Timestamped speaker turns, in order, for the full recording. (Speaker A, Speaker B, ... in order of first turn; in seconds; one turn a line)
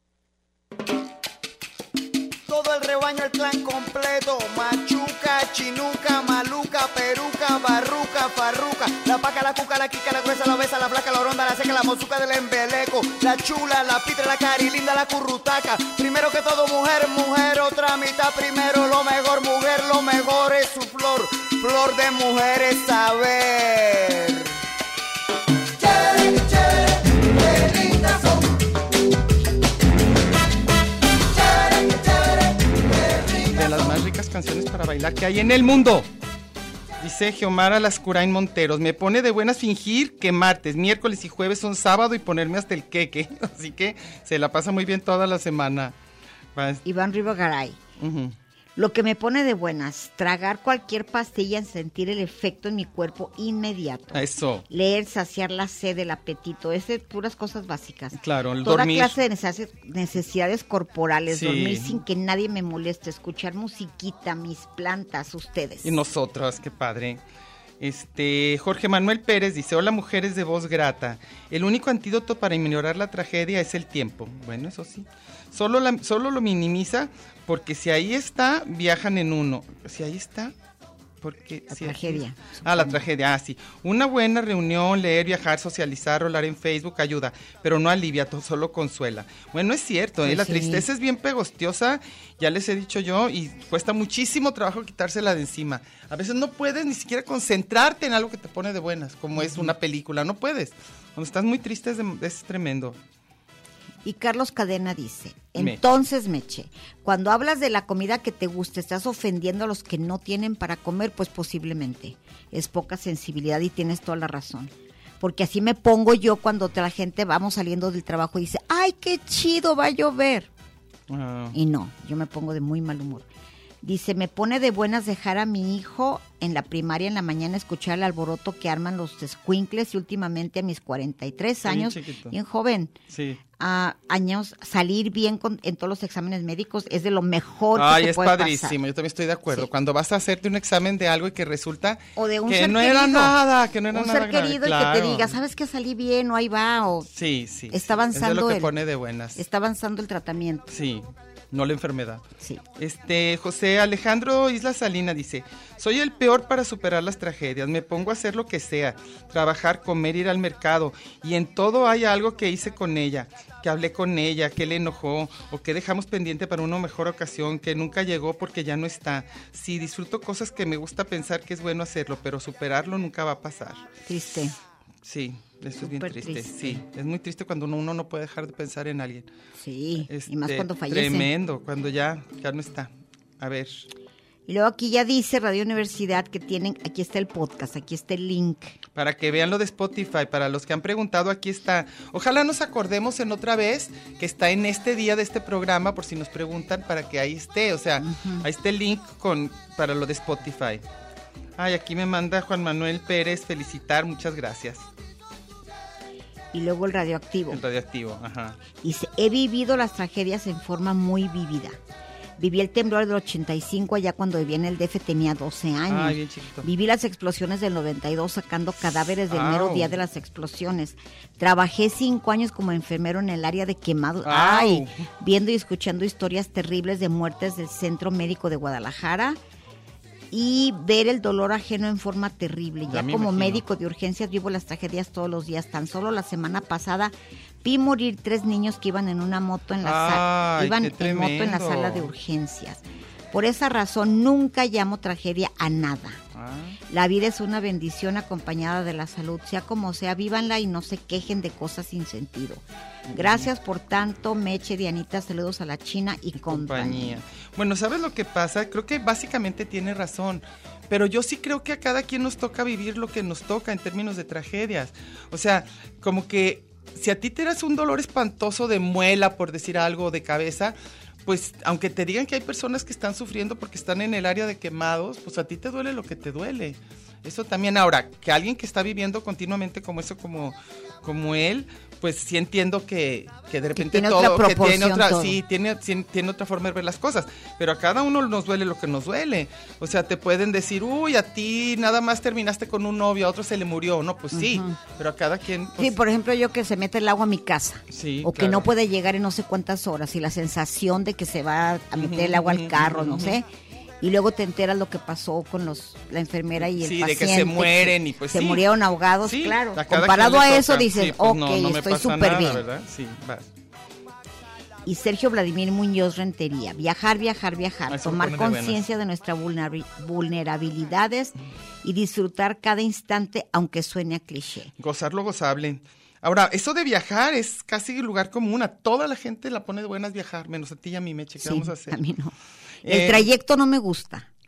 Speaker A: 2.5-24.5
Speaker A: 26.1-26.5
Speaker A: 27.4-28.3
Speaker B: 33.5-36.1
Speaker B: 37.0-46.0
Speaker B: 46.6-46.8
Speaker C: 46.9-47.8
Speaker B: 48.0-48.4
Speaker C: 48.8-66.0
Speaker B: 54.1-54.7
Speaker B: 58.2-59.2
Speaker B: 61.3-62.0
Speaker B: 65.8-67.2
Speaker B: 67.8-80.5
Speaker B: 81.2-103.0
Speaker C: 81.7-83.1
Speaker C: 90.2-90.9
Speaker C: 99.4-99.7
Speaker C: 104.0-120.5
Speaker B: 105.6-105.8
Speaker B: 121.1-121.6
Speaker C: 121.5-123.3
Speaker C: 123.8-132.9
Speaker B: 131.7-132.3
Speaker B: 133.1-133.4
Speaker C: 133.6-138.8
Speaker B: 137.7-145.4
Speaker C: 142.2-143.4
Speaker C: 143.9-147.1
Speaker B: 147.2-149.4
Speaker C: 147.7-148.8
Speaker C: 149.4-150.7
Speaker B: 150.7-152.2
Speaker B: 152.8-173.9
Speaker C: 174.1-174.6
Speaker B: 175.1-179.3
Speaker C: 175.8-176.8
Speaker C: 179.6-181.3
Speaker B: 180.1-183.8
Speaker C: 184.5-188.8
Speaker B: 189.0-200.8
Speaker C: 198.0-198.5
Speaker B: 201.6-204.9
Speaker C: 206.5-207.6
Speaker B: 207.5-208.6
Speaker C: 208.8-211.8
Speaker C: 212.4-229.4
Speaker B: 215.9-216.7
Speaker B: 219.3-219.9
Speaker B: 224.2-225.1
Speaker C: 230.3-246.2
Speaker B: 232.9-233.6
Speaker B: 239.8-242.1
Speaker B: 246.3-246.8
Speaker C: 246.9-257.2
Speaker B: 253.1-253.5
Speaker B: 256.4-296.0
Speaker C: 283.8-285.4
Speaker C: 294.3-294.8
Speaker C: 295.8-303.5
Speaker B: 297.9-298.7
Speaker B: 302.0-303.4
Speaker C: 304.0-312.6
Speaker B: 306.6-308.6
Speaker B: 309.2-313.5
Speaker C: 314.8-324.7
Speaker B: 317.9-318.8
Speaker B: 324.8-332.0
Speaker C: 331.4-334.3
Speaker B: 332.9-333.3